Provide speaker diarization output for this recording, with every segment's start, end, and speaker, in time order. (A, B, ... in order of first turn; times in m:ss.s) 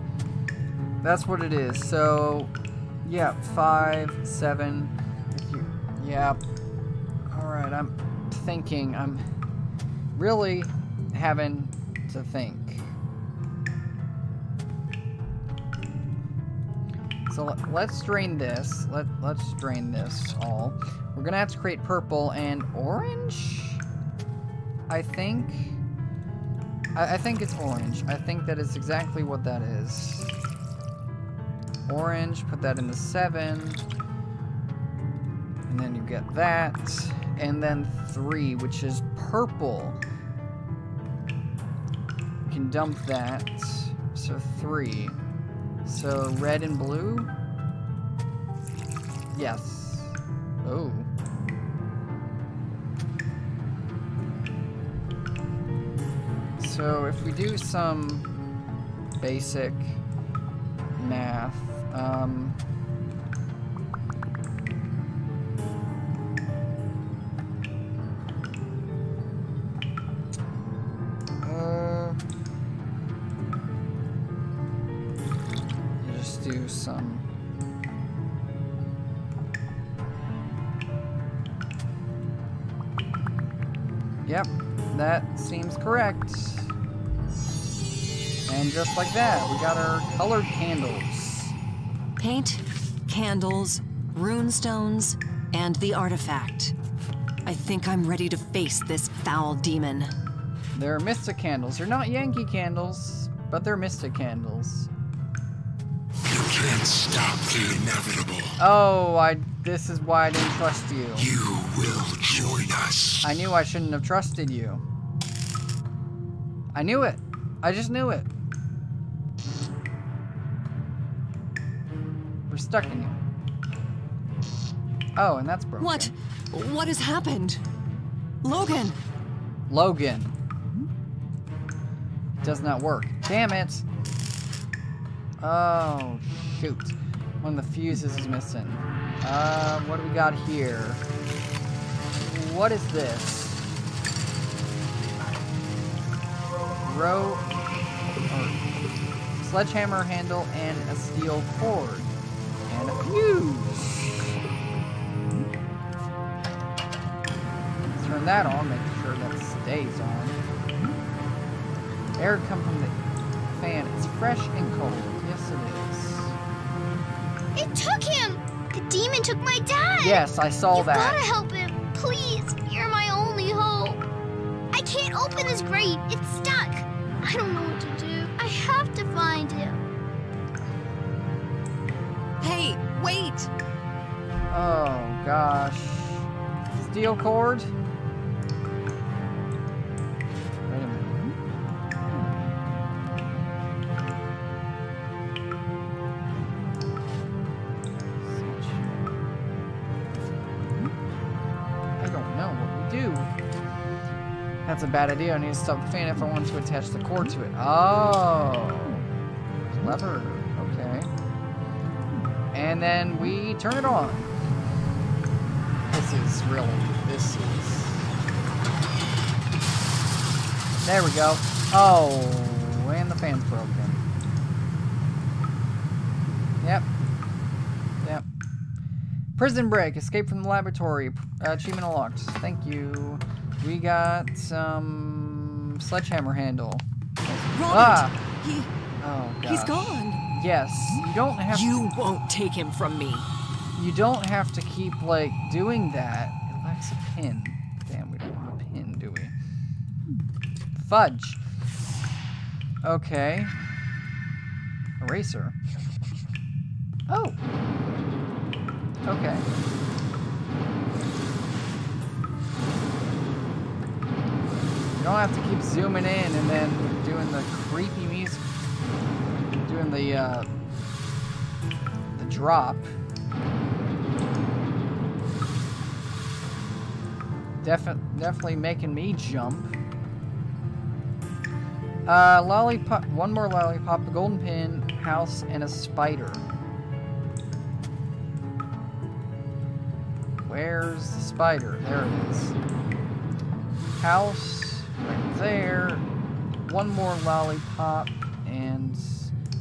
0:01.0-0:02.5 A
0:03.0-0:06.4 A
0:07.3-0:09.2 A
0:10.1-0:12.9 A
0:17.3-0:23.8 A
0:24.9-0:25.8 A
0:27.0-0:30.4 A
0:31.8-0:33.8 A
0:35.7-0:40.0 A
0:42.4-0:45.2 A
0:45.8-0:47.3 A
0:49.3-0:51.1 A
0:56.6-0:58.3 A
0:59.2-1:00.0 A
1:01.0-1:02.6 A
1:11.4-1:12.2 A
1:16.0-1:17.2 A
1:24.2-1:26.7 A
1:28.4-1:31.6 A
1:32.2-1:36.7 B
1:37.4-1:40.1 B
1:40.7-1:44.9 A
1:46.3-1:48.5 C
1:48.6-1:51.3 A
1:51.2-1:53.2 C
1:53.2-1:54.8 A
1:56.7-1:58.3 A
2:02.5-2:03.2 A
2:05.2-2:06.1 A
2:05.8-2:07.6 B
2:08.4-2:09.0 B
2:09.7-2:10.4 A
2:12.4-2:13.8 A
2:15.4-2:21.0 A
2:22.2-2:23.7 A
2:26.8-2:27.5 A
2:28.3-2:28.6 A
2:29.4-2:32.1 A
2:32.7-2:34.4 A
2:37.9-2:40.4 A
2:42.2-2:43.0 A
2:43.5-2:46.4 A
2:47.5-2:54.0 D
2:50.0-2:51.2 A
2:54.7-2:59.8 D
3:02.4-3:03.5 B
3:04.5-3:07.7 A
3:10.7-3:11.2 A
3:18.2-3:18.9 A
3:22.0-3:23.3 A
3:24.6-3:29.0 A
3:29.8-3:31.1 A
3:32.5-3:34.3 A
3:35.9-3:38.1 A
3:40.8-3:44.0 A
3:46.6-3:46.9 A
3:49.4-3:56.8 A
3:57.3-3:58.7 B
3:57.4-3:58.2 A
3:59.0-4:01.7 A
3:59.4-4:00.2 B
4:01.5-4:03.3 B
4:03.8-4:09.3 A
4:10.8-4:11.4 A
4:12.8-4:13.5 A
4:15.0-4:15.5 A
4:17.1-4:17.4 A
4:19.0-4:19.5 A
4:25.0-4:28.4 A
4:29.6-4:30.5 A
4:32.1-4:32.9 A
4:37.6-4:39.7 A
4:42.0-4:46.4 A
4:50.4-4:52.6 A
4:54.0-4:56.1 A
4:56.6-4:59.3 A